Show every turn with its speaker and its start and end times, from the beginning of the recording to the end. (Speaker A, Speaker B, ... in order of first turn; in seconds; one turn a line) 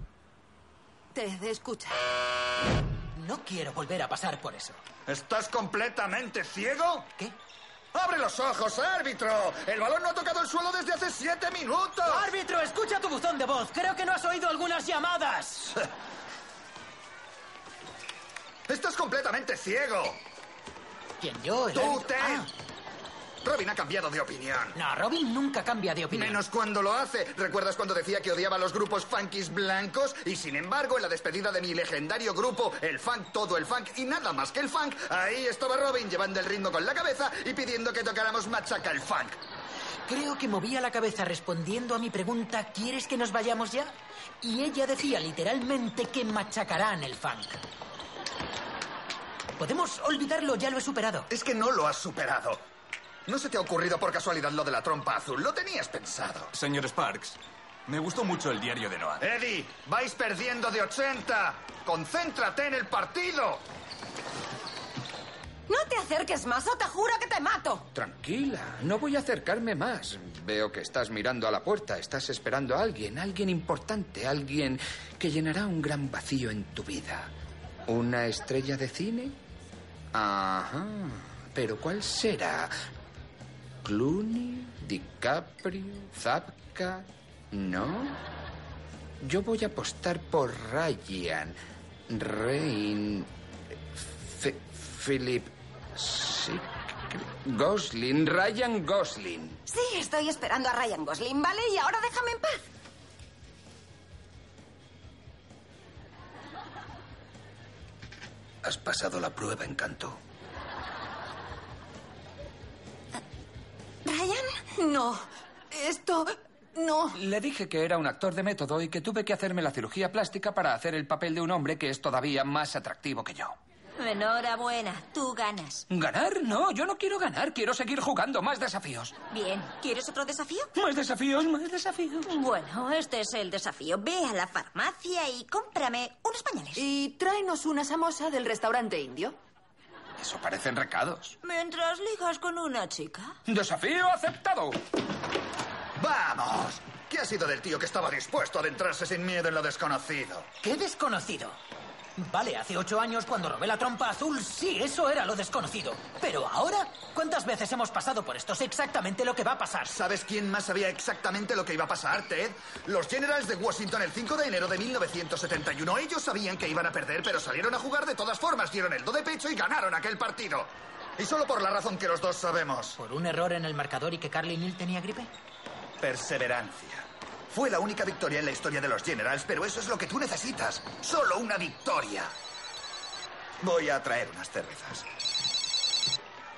Speaker A: 1.1-2.1
Speaker B: 3.1-4.8
Speaker C: 5.1-7.1
Speaker C: 7.9-12.3
Speaker B: 12.0-15.8
Speaker C: 18.7-20.2
Speaker B: 21.2-22.4
Speaker C: 21.7-22.5
Speaker C: 23.4-24.8
Speaker B: 24.7-26.4
Speaker C: 26.1-39.4
Speaker B: 40.1-47.6
Speaker B: 49.6-51.3
Speaker C: 51.3-52.6
Speaker C: 53.2-56.5
Speaker D: 56.6-57.3
Speaker D: 57.9-59.1
Speaker C: 59.2-63.6
Speaker E: 67.9-77.3
Speaker E: 77.9-79.3
Speaker E: 80.1-82.7
Speaker E: 83.8-88.2
Speaker E: 89.2-91.5
Speaker E: 92.1-93.3
Speaker E: 94.3-99.6
Speaker E: 108.6-110.2
Speaker A: 114.0-115.2
Speaker A: 115.7-117.2
Speaker E: 117.2-123.5
Speaker F: 124.0-125.8
Speaker E: 125.9-129.1
Speaker F: 129.3-130.7
Speaker E: 130.7-132.4
Speaker F: 132.3-136.8
Speaker A: 136.8-139.3
Speaker E: 140.2-141.4
Speaker F: 141.4-143.3
Speaker E: 143.5-144.8
Speaker C: 146.0-150.5
Speaker B: 150.6-151.6
Speaker B: 152.2-159.9
Speaker C: 159.9-172.9
Speaker B: 172.9-175.3
Speaker C: 176.0-182.3
Speaker C: 183.6-185.1